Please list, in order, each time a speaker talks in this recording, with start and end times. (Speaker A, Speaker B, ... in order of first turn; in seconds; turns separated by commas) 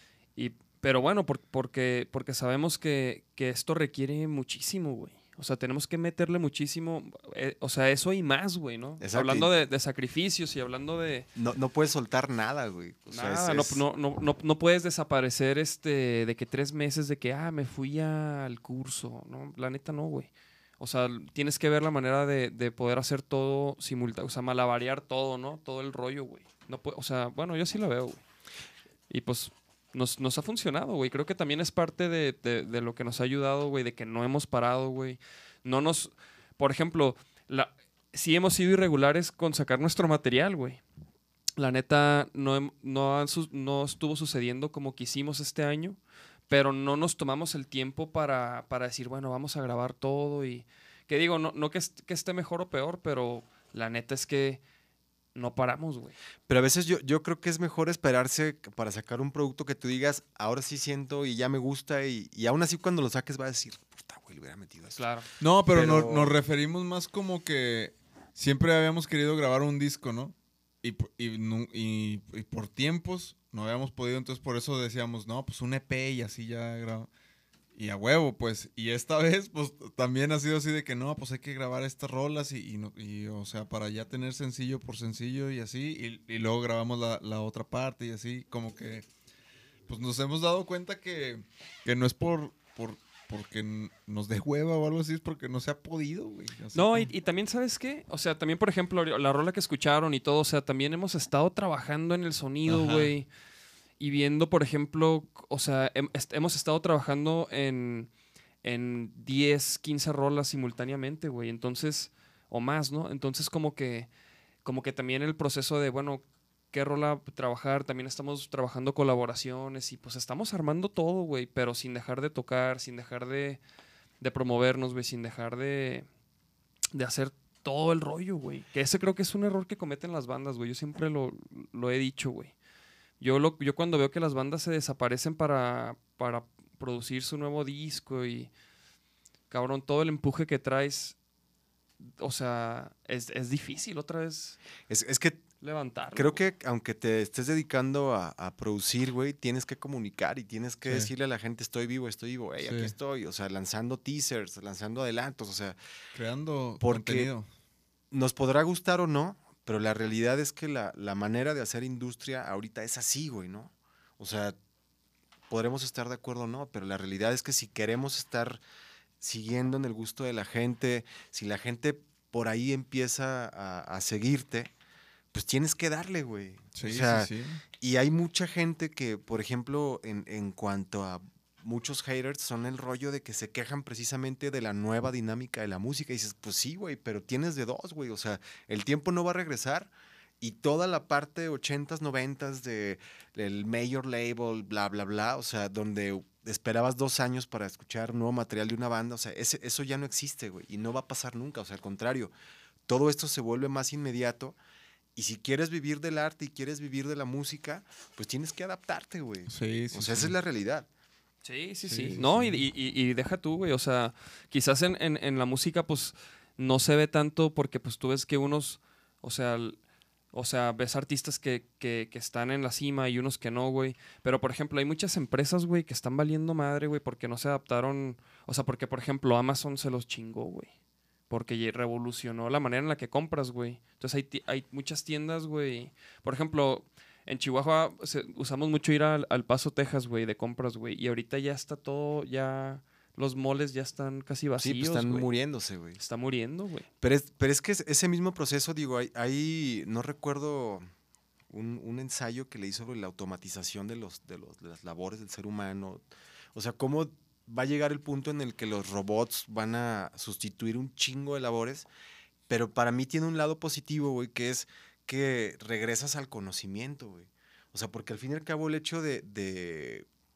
Speaker A: 0.3-11.3, Speaker B: 9.0-9.5, Speaker B: 11.3-13.8, Speaker A: 13.1-28.2, Speaker A: 29.1-40.8, Speaker A: 41.6-46.0, Speaker A: 46.5-54.6, Speaker A: 55.3-56.1, Speaker B: 56.5-65.0, Speaker A: 64.9-65.3, Speaker C: 65.4-77.1, Speaker B: 65.7-66.4, Speaker C: 77.7-89.1, Speaker C: 89.9-97.1, Speaker A: 96.7-103.3, Speaker C: 102.7-103.1, Speaker A: 104.0-108.1, Speaker A: 108.6-114.1, Speaker A: 114.6-123.6, Speaker A: 124.2-126.1, Speaker A: 126.9-132.5, Speaker A: 133.2-138.5, Speaker A: 139.5-141.2, Speaker A: 142.1-144.6, Speaker B: 144.9-145.4, Speaker A: 145.6-146.4, Speaker B: 146.1-155.8, Speaker C: 150.8-151.1, Speaker C: 152.6-152.9, Speaker C: 156.1-157.5, Speaker B: 156.8-157.3, Speaker B: 158.1-164.6, Speaker B: 165.5-168.6, Speaker B: 169.2-174.7, Speaker B: 175.3-202.3, Speaker C: 176.7-177.6, Speaker B: 202.9-204.6, Speaker B: 205.1-210.9, Speaker C: 209.5-210.3, Speaker A: 211.4-219.8, Speaker C: 211.8-212.6, Speaker A: 220.3-230.7, Speaker A: 231.3-245.3, Speaker B: 244.6-246.0, Speaker A: 246.0-246.9, Speaker B: 247.0-250.9, Speaker B: 251.5-261.9, Speaker B: 262.5-270.1